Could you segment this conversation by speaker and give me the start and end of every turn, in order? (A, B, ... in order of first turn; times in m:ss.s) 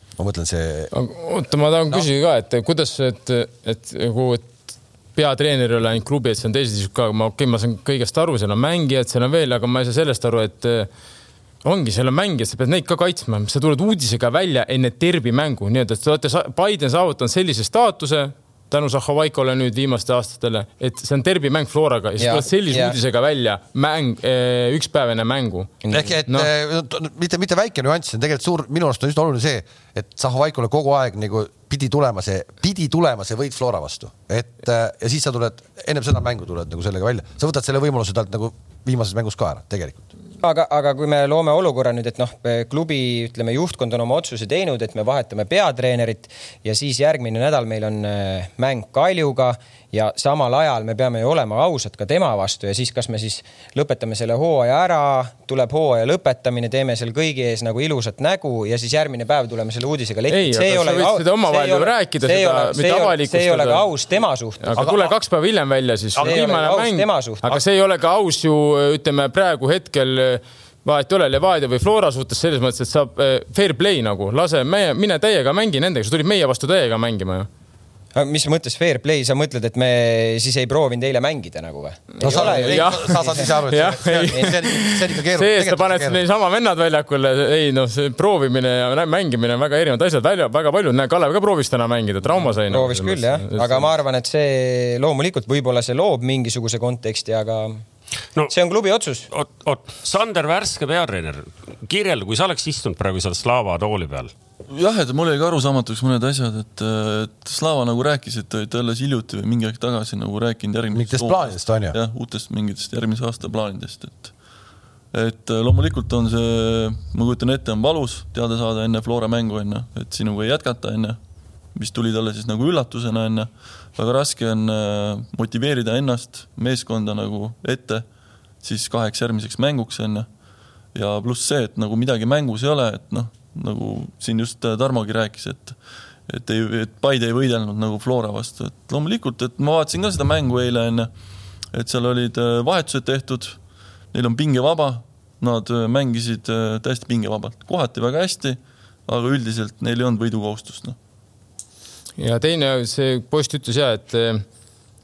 0:00.2-0:00.9 A
0:00.9-0:10.9 B
0:11.6-0:25.7 B
0:22.2-0:23.0 C
0:25.8-0:26.1 C
0:25.9-0:40.0 A
0:40.4-1:04.8 C
1:00.3-1:03.8 B
1:04.6-1:17.5 B
1:04.8-1:05.1 A
1:06.2-1:06.5 A
1:06.2-1:07.4 C
1:18.1-1:23.5 C
1:22.2-1:33.9 B
1:22.2-1:26.2 A
1:32.4-1:37.8 C
1:38.5-1:39.3 C
1:39.3-1:44.3 D
1:44.7-1:54.3 E
1:50.9-1:52.0 A
1:55.1-2:01.2 E
2:01.7-2:08.0 E
2:08.6-2:10.3 E
2:10.9-2:21.1 E
2:21.7-2:31.0 E
2:32.2-2:34.4 B